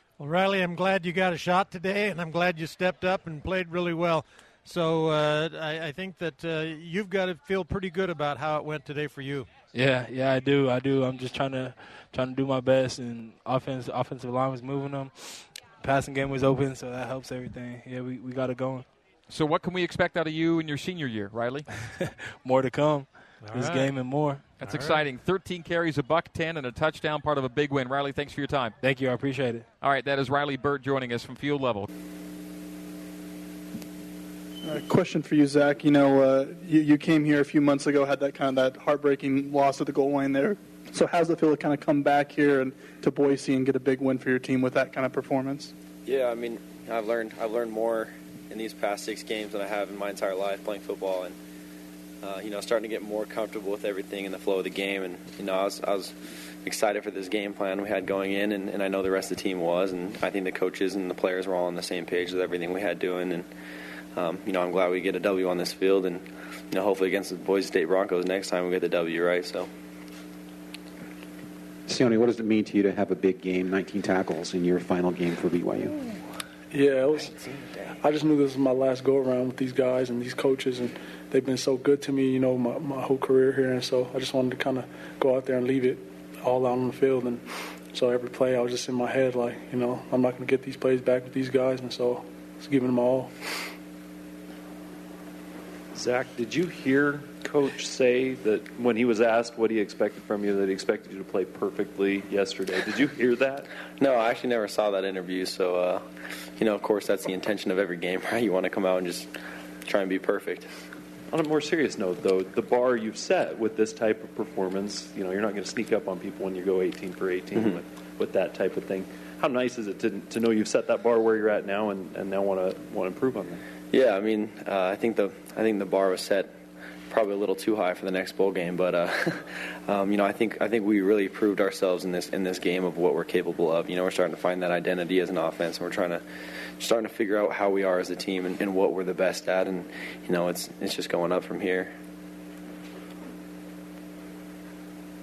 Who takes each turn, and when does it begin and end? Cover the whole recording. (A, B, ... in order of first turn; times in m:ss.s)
0:00.2-0:09.6 A
0:09.7-0:18.9 B
0:19.3-0:21.7 C
0:21.8-0:24.5 B
0:23.4-0:23.9 A
0:24.6-0:25.0 A
0:24.6-0:28.8 C
0:28.8-0:29.7 B
0:29.8-0:31.9 C
0:34.6-0:45.7 D
0:46.1-0:51.4 E
0:52.2-1:03.5 E
1:04.2-1:09.7 E
1:11.9-1:16.0 F
1:16.7-1:33.4 G
1:35.9-1:43.7 H
1:44.0-1:50.7 E
1:51.3-2:03.6 H
2:03.9-2:06.5 E
2:07.1-2:16.2 E
2:16.8-2:21.9 E